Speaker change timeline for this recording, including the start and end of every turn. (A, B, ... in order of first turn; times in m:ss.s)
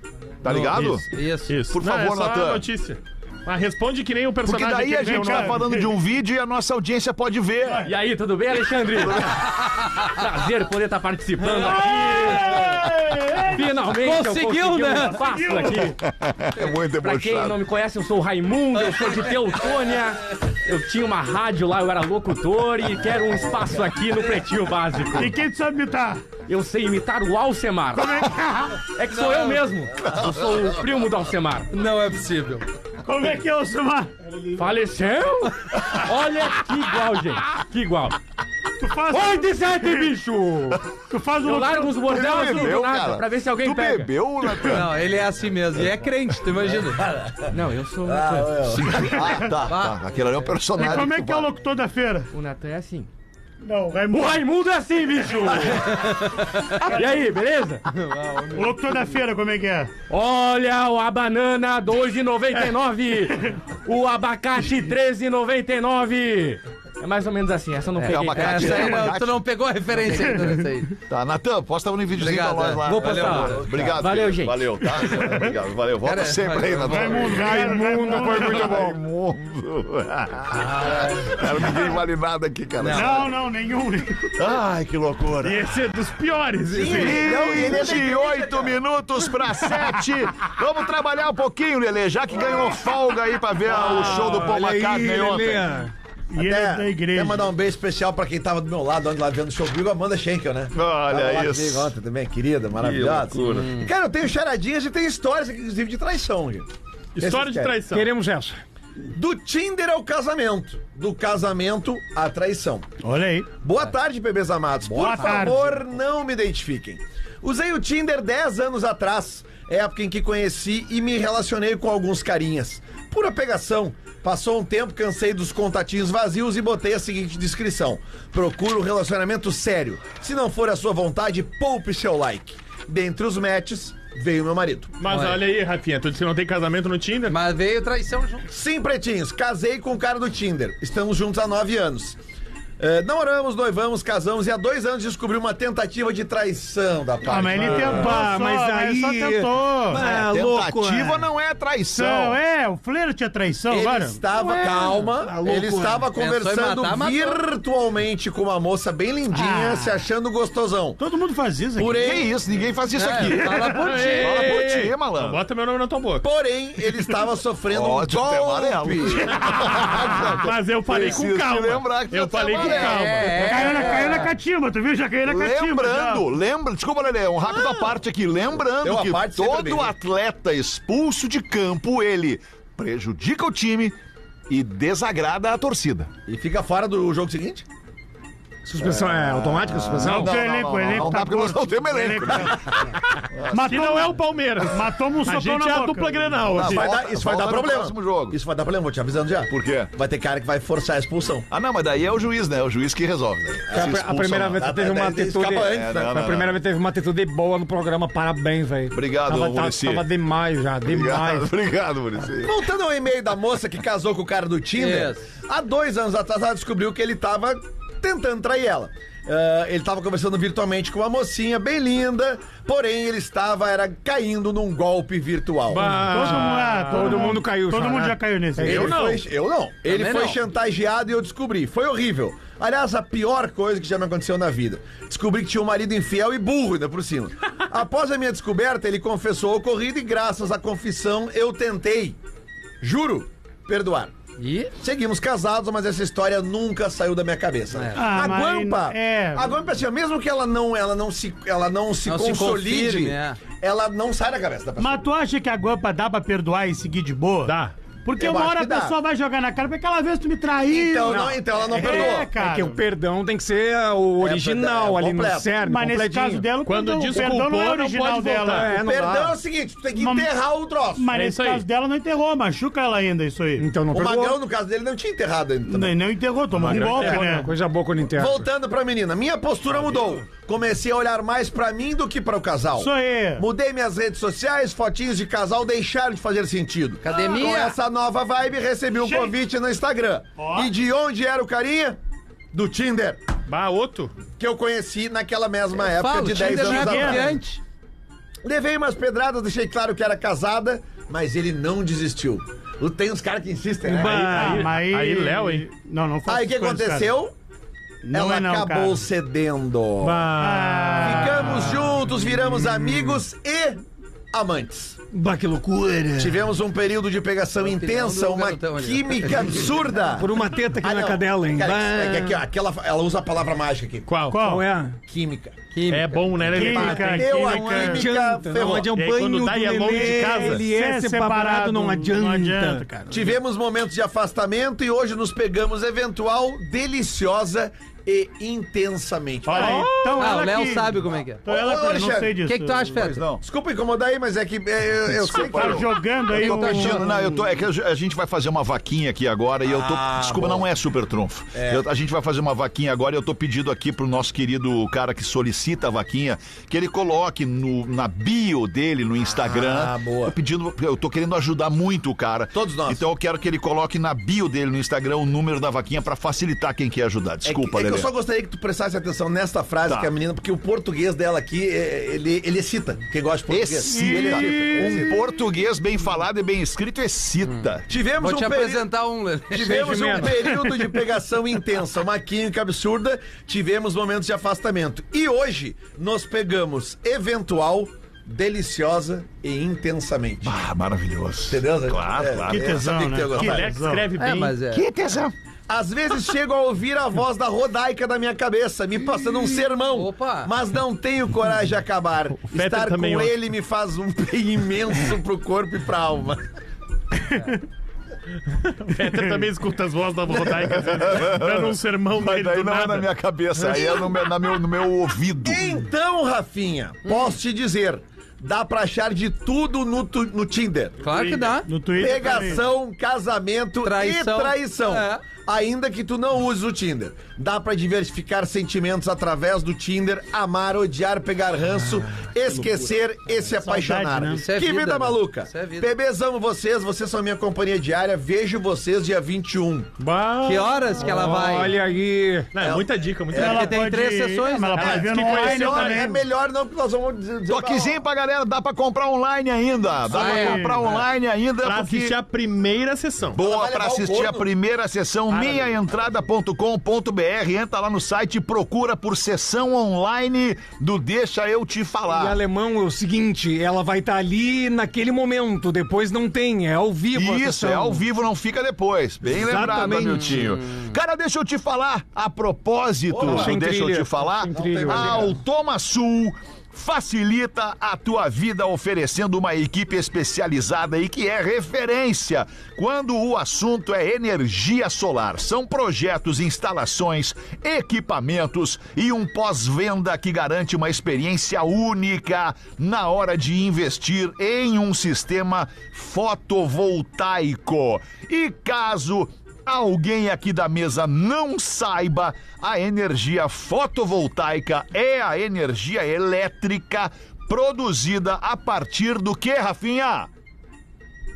0:00.4-0:01.0 A
0:00.4-0:01.5 B
0:00.7-0:05.9 C
0:01.7-0:02.6 A
0:04.4-0:07.9 A
0:05.0-0:05.6 D
0:07.8-0:16.0 E
0:11.4-0:13.6 D
0:14.0-0:15.2 B
0:15.0-0:15.8 D
0:15.8-0:17.6 A
0:16.9-0:25.4 E
0:25.1-0:26.3 D
0:26.4-0:31.7 E
0:27.9-0:28.8 D
0:29.1-0:29.6 B
0:31.7-0:32.6 B
0:33.0-0:34.2 D
0:34.5-0:38.2 E
0:38.8-0:40.1 D
0:39.1-0:40.7 E
0:41.1-0:42.2 D
0:41.4-0:44.1 E
0:42.0-0:45.0 A
0:44.6-0:47.0 B
0:46.6-0:49.2 F
0:47.5-0:48.7 E
0:48.7-0:51.5 A
0:49.2-0:49.5 D
0:49.6-0:50.0 B
0:50.8-0:52.3 D
0:52.3-0:53.1 E
0:53.6-0:54.4 D
0:54.1-0:57.8 E
0:57.9-0:58.7 B
0:58.5-0:59.9 D
1:00.1-1:09.0 E
1:08.0-1:10.9 B
1:08.0-1:09.4 A
1:10.1-1:10.6 D
1:11.1-1:23.3 A
1:12.1-1:14.0 B
1:13.0-1:14.9 E
1:16.0-1:17.4 B
1:16.9-1:18.8 D
1:17.2-1:19.0 G
1:20.5-1:21.4 B
1:22.8-1:23.3 B
1:22.9-1:24.3 D
1:24.4-1:25.6 A
1:25.4-1:27.4 C
1:26.7-1:28.8 F
1:26.9-1:35.7 A
1:33.7-1:35.9 G
1:36.3-1:37.5 D
1:36.4-1:47.8 F
1:40.7-1:41.9 A
1:42.8-1:43.8 A
1:47.1-1:48.1 C
1:47.9-1:48.6 G
1:49.1-1:52.9 F
1:53.0-1:53.5 D
1:53.6-2:14.9 F
1:54.9-1:55.7 D
1:55.1-1:55.4 B
2:15.0-2:17.4 C
2:15.0-2:15.4 B
2:17.3-2:18.5 B
2:18.5-2:22.2 F
2:22.8-2:28.2 F
2:27.2-2:30.1 D
2:27.7-2:31.2 G
2:29.9-2:32.4 A
2:31.9-2:34.2 D
2:33.7-2:41.0 F
2:34.3-2:36.1 G
2:36.1-2:37.4 B
2:39.3-2:40.0 D
2:41.0-2:42.2 D
2:41.8-2:42.2 F
2:41.9-2:45.4 A
2:42.9-2:44.5 B
2:43.4-2:43.7 D
2:43.8-2:46.2 C
2:46.2-2:49.4 F
2:47.7-2:53.2 A
2:50.4-2:53.7 C
2:52.6-2:54.3 B
2:53.4-2:56.2 D
2:55.2-3:04.0 A
2:58.8-2:59.9 F
3:04.5-3:06.1 A
3:06.2-3:07.6 F
3:08.6-3:10.4 G
3:08.8-3:13.8 A
3:10.0-3:12.9 D
3:13.5-3:16.4 D
3:13.6-3:16.9 C
3:16.5-3:18.4 A
3:16.6-3:21.5 F
3:19.5-3:19.9 A
3:21.5-3:24.6 A
3:23.7-3:24.0 F
3:23.7-3:31.5 G
3:24.6-3:26.2 F
3:25.6-3:26.6 A
3:28.9-3:30.0 A
3:30.8-3:32.6 A
3:32.4-3:45.9 F
3:34.8-3:35.3 B
3:45.7-3:47.3 C
3:45.8-3:49.0 G
3:46.0-3:48.9 D
3:48.6-4:02.2 F
3:48.6-3:49.2 C
3:49.8-3:50.4 B
4:02.8-4:04.1 F
4:04.4-4:04.7 B
4:04.8-4:15.1 F
4:07.7-4:08.3 B
4:07.9-4:09.5 D
4:12.0-4:13.4 B
4:14.8-4:22.8 D
4:17.4-4:17.7 C
4:18.2-4:19.0 F
4:20.7-4:22.3 F
4:21.0-4:26.5 G
4:24.2-4:25.5 F
4:25.6-4:28.7 D
4:26.6-4:28.7 C
4:28.4-4:29.4 G
4:28.7-4:31.1 F
4:30.0-4:30.3 D
4:30.9-4:33.6 D
4:31.1-4:31.6 C
4:33.6-4:34.4 G
4:33.9-4:36.0 F
4:35.7-4:37.5 D
4:36.5-4:37.4 C
4:36.7-4:38.5 G
4:36.8-4:37.4 F
4:38.2-4:52.0 F
4:42.8-4:43.4 D
4:47.0-4:47.8 B
4:49.0-4:49.3 D
4:50.4-4:50.7 D
4:52.5-4:53.2 F
4:53.5-4:54.1 C
4:54.4-4:57.4 F
4:55.7-4:57.6 B
4:56.4-4:57.3 D
4:58.4-5:04.6 F
5:03.9-5:05.7 C
5:03.9-5:04.5 G
5:04.0-5:07.1 D
5:06.2-5:07.3 F
5:08.0-5:09.0 D
5:08.1-5:10.3 F
5:10.0-5:11.5 C
5:10.3-5:11.8 D
5:11.0-5:15.0 F
5:15.1-5:16.5 G
5:16.2-5:24.2 F
5:17.6-5:19.7 B
5:20.0-5:22.4 G
5:24.0-5:24.5 C
5:24.3-5:24.7 D
5:24.3-5:25.0 G
5:25.0-5:25.6 F
5:25.7-5:26.5 B
5:25.9-5:27.9 C
5:26.4-5:28.9 F
5:26.5-5:28.0 D
5:27.3-5:33.0 G
5:28.9-5:30.6 C
5:30.4-5:33.3 D
5:33.1-5:40.4 F
5:39.4-5:40.2 C
5:39.5-5:43.0 D
5:40.2-5:41.4 B
5:41.4-5:42.4 F
5:42.4-5:43.2 B
5:43.0-5:43.4 A
5:43.4-5:46.0 F
5:45.3-5:47.2 D
5:45.5-5:45.8 A
5:46.3-5:47.0 B
5:46.3-6:08.1 A
5:49.6-5:50.7 F
5:51.5-5:51.8 F
5:59.4-6:00.4 F
6:02.5-6:03.0 F
6:07.4-6:15.2 F
6:09.8-6:10.1 A
6:13.5-6:17.8 A
6:13.8-6:15.1 D
6:17.4-6:20.2 B
6:17.9-6:18.8 F
6:19.5-6:30.6 F
6:19.6-6:20.5 G
6:30.4-6:32.9 A
6:31.5-6:33.7 F
6:32.5-6:34.1 D
6:33.3-6:34.5 C
6:34.2-6:34.8 B
6:34.7-6:35.3 A
6:35.7-6:46.4 F
6:39.1-6:39.4 A
6:39.9-6:40.5 B
6:42.4-6:43.3 C
6:48.5-6:53.8 C
6:50.5-6:55.7 A
6:55.4-7:01.0 F
7:01.0-7:01.7 B
7:01.0-7:01.6 C
7:01.6-7:02.7 D
7:01.9-7:19.9 F
7:03.8-7:05.2 B
7:13.5-7:14.4 D
7:14.3-7:15.9 B
7:20.0-7:20.9 C
7:20.4-7:21.7 B
7:21.0-7:22.5 G
7:22.5-7:23.8 C
7:22.6-7:23.7 F
7:23.4-7:26.2 D
7:23.4-7:25.1 B
7:24.7-7:26.1 C
7:25.0-7:28.0 F
7:27.5-7:32.2 A
7:30.0-7:30.7 F
7:30.1-7:31.0 B
7:30.3-7:30.8 D
7:31.6-7:33.4 C
7:33.3-7:42.4 A
7:33.4-7:34.5 F
7:42.1-7:48.0 G
7:47.1-8:30.3 A
7:49.3-7:50.6 G
7:53.1-7:53.6 F
7:53.2-7:55.3 G
7:54.5-7:55.4 F